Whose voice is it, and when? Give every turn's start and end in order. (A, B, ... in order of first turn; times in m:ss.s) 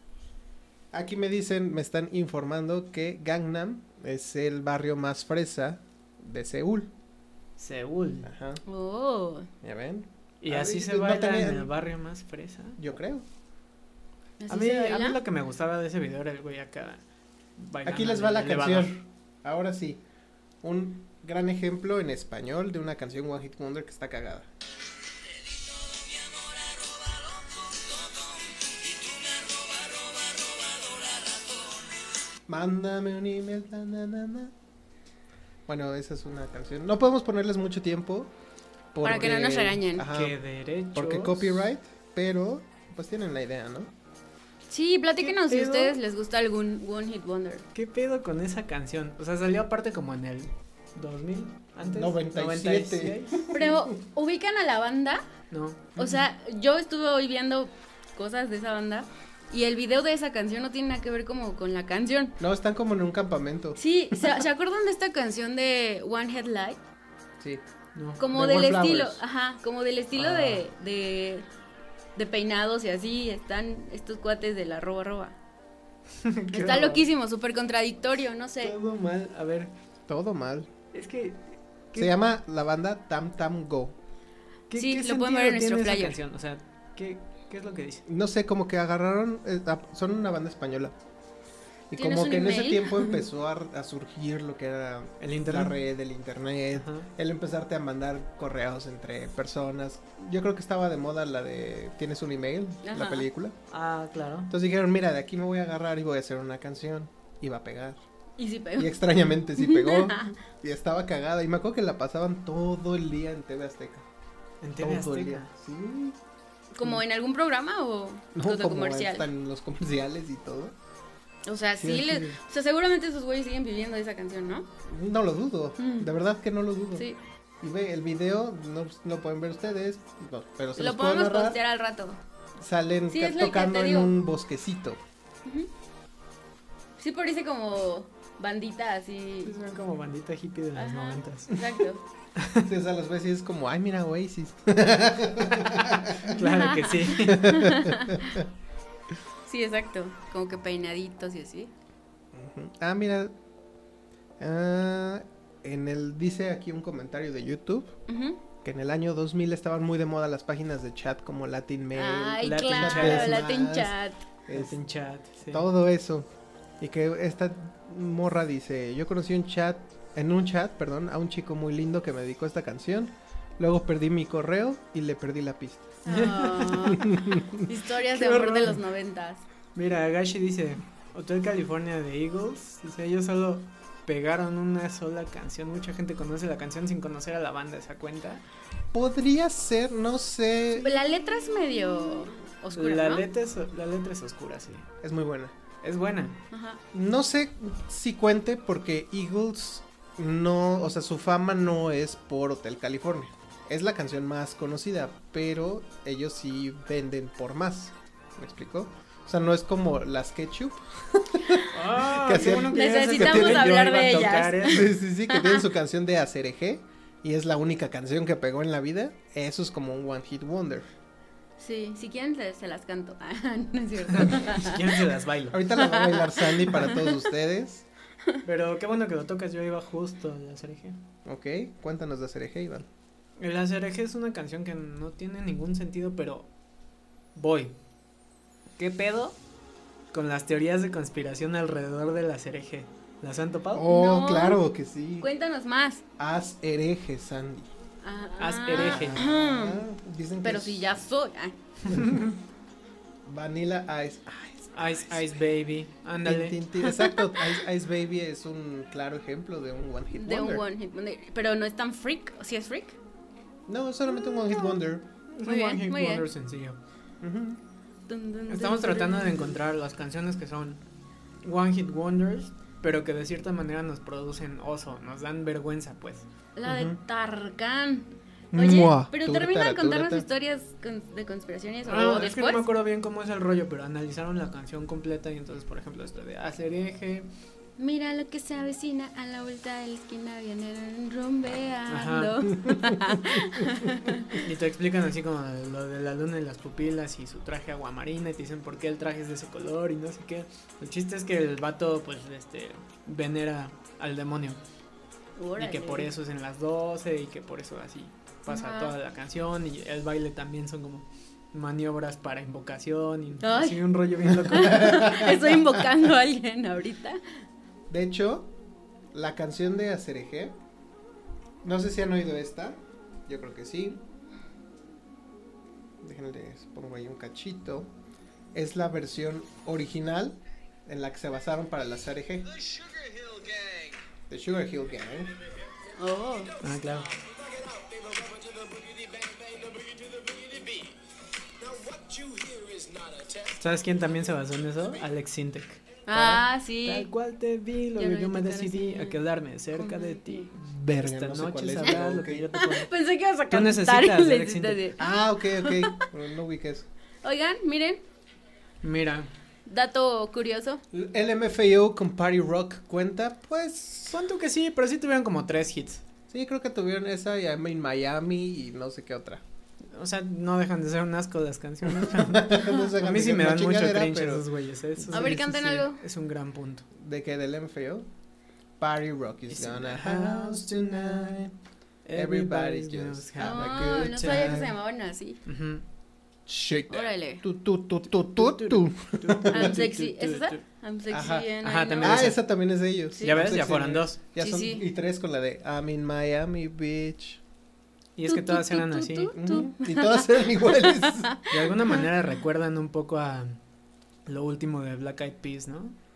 0:00.9-0:06.9 A
0:07.6-0:08.3 B
0:08.2-0:08.6 A
0:08.6-0:09.5 C
0:09.6-0:11.7 A
0:10.4-0:12.8 B
0:12.8-0:13.2 A
0:14.4-0:15.2 C
0:14.5-0:17.0 B
0:17.6-0:19.0 B
0:17.8-0:20.0 A
0:20.6-0:24.5 A
0:32.5-0:34.5 A
0:35.7-0:38.3 A
0:38.9-0:40.4 A
0:39.0-0:40.1 C
0:39.1-0:39.4 B
0:40.0-0:41.7 B
0:40.9-0:43.9 A
0:44.7-0:47.7 C
0:45.2-0:46.0 B
0:47.7-0:53.4 B
0:51.8-0:53.9 A
0:53.5-0:55.2 C
0:55.5-0:56.2 B
0:56.0-1:02.4 C
1:02.4-1:03.8 A
1:03.8-1:06.8 C
1:08.0-1:08.3 B
1:08.2-1:11.5 C
1:08.3-1:09.2 A
1:10.2-1:10.6 B
1:12.2-1:15.4 C
1:16.2-1:17.0 B
1:16.5-1:18.8 C
1:18.6-1:19.7 B
1:20.1-1:20.7 A
1:20.9-1:22.1 B
1:22.0-1:24.0 A
1:24.7-1:28.0 B
1:24.8-1:26.2 C
1:28.1-1:30.9 A
1:31.9-1:43.6 A
1:32.0-1:33.2 C
1:35.2-1:35.8 B
1:36.7-1:37.1 B
1:42.8-1:43.3 C
1:43.7-1:44.5 B
1:44.5-1:48.0 A
1:48.4-1:48.9 C
1:48.8-1:54.1 A
1:49.6-1:50.4 C
1:54.6-1:55.5 B
1:54.8-1:56.2 A
1:56.8-1:59.3 C
1:58.4-2:00.8 A
2:01.5-2:04.7 C
2:01.8-2:02.4 A
2:04.8-2:07.0 A
2:05.8-2:06.1 C
2:07.6-2:11.6 A
2:10.8-2:12.2 C
2:12.6-2:15.0 A
2:13.1-2:14.1 C
2:17.0-2:19.6 C
2:19.4-2:21.6 B
2:20.8-2:22.0 C
2:22.4-2:22.7 B
2:22.6-2:26.4 A
2:26.2-2:27.7 B
2:26.3-2:28.4 C
2:27.2-2:28.4 A
2:29.5-2:31.7 C
2:32.3-2:33.3 A
2:34.4-2:37.9 A
2:38.1-2:38.4 C
2:38.6-2:44.0 A
2:41.9-2:44.2 C
2:42.4-2:43.4 B
2:44.5-2:44.8 A
2:44.5-2:45.7 B
2:45.5-2:46.3 A
2:46.8-2:56.0 A
2:56.0-2:59.4 C
2:56.1-2:57.1 B
2:57.0-2:57.7 A
2:58.1-2:58.8 B
2:59.8-3:08.4 B
3:08.9-3:11.0 A
3:10.8-3:13.3 C
3:12.7-3:14.9 B
3:15.0-3:15.5 A
3:15.8-3:16.4 B
3:16.5-3:16.8 C
3:16.9-3:33.7 A
3:31.7-3:34.9 B
3:32.4-3:35.6 C
3:34.6-3:40.9 A
3:41.6-3:45.1 C
3:44.1-3:45.7 B
3:45.5-3:47.9 A
3:45.8-3:47.2 C
3:48.4-3:51.0 B
3:51.2-3:52.9 A
3:53.4-3:56.5 B
3:57.4-3:57.8 B
3:58.8-3:59.4 B
4:00.1-4:03.9 B
4:03.7-4:05.3 A
4:03.9-4:04.6 C
4:05.2-4:06.0 C
4:06.2-4:07.7 A
4:08.0-4:09.8 C
4:08.4-4:09.3 B
4:08.7-4:11.0 A
4:10.4-4:11.6 C
4:11.9-4:12.4 A
4:13.3-4:15.5 A
4:14.8-4:17.0 B
4:16.2-4:20.6 A
4:20.1-4:23.0 C
4:23.7-4:25.1 A
4:24.1-4:24.8 C
4:25.3-4:26.8 B
4:25.4-4:26.3 C
4:27.2-4:27.6 A
4:28.1-4:29.6 C
4:28.5-4:30.8 B
4:31.4-4:36.3 B
4:36.6-4:42.6 C
4:36.7-4:37.0 A
4:38.5-4:40.3 A
4:41.8-4:47.3 B
4:47.8-4:54.5 C
4:51.9-4:52.4 B
4:52.7-4:53.0 A
4:54.4-5:04.6 B
5:05.4-5:06.1 C
5:05.6-5:15.2 B
5:08.5-5:08.9 C
5:13.4-5:17.2 C
5:14.3-5:15.8 A
5:17.9-5:18.5 A
5:19.1-5:20.6 A
5:21.6-5:24.0 A
5:26.0-5:27.9 A
5:28.5-5:32.7 A
5:34.3-5:35.4 A
5:36.0-5:36.6 C
5:36.6-5:37.1 B
5:43.5-5:45.8 B
5:46.1-5:47.1 C
5:46.1-5:46.4 A
5:46.8-5:52.9 B
5:48.0-5:49.2 C
5:49.8-5:50.5 C
5:50.6-5:52.5 A
5:52.6-5:56.0 C
5:53.5-5:54.8 B
5:55.0-5:56.9 A
5:57.2-5:58.0 C
5:58.8-5:59.3 B
5:59.7-6:00.8 C
6:00.9-6:04.2 A
6:04.1-6:06.0 B
6:06.3-6:09.4 A
6:09.9-6:16.9 B
6:11.9-6:14.5 A
6:15.0-6:15.8 A
6:15.1-6:16.0 C
6:16.9-6:18.1 A
6:18.8-6:21.5 A
6:19.5-6:21.4 B
6:22.0-6:24.7 B
6:22.2-6:24.7 A
6:23.4-6:25.4 C
6:25.5-6:25.8 B
6:26.5-6:29.8 A
6:26.9-6:27.4 C
6:28.4-6:30.6 B
6:29.5-6:32.3 C
6:31.1-6:37.4 A
6:31.6-6:32.4 B
6:33.2-6:33.5 C
6:33.2-6:34.2 B
6:34.4-6:34.9 C
6:38.2-6:39.4 B
6:38.3-6:42.0 C
6:39.3-6:41.4 A
6:41.5-6:43.6 B
6:44.3-6:46.0 B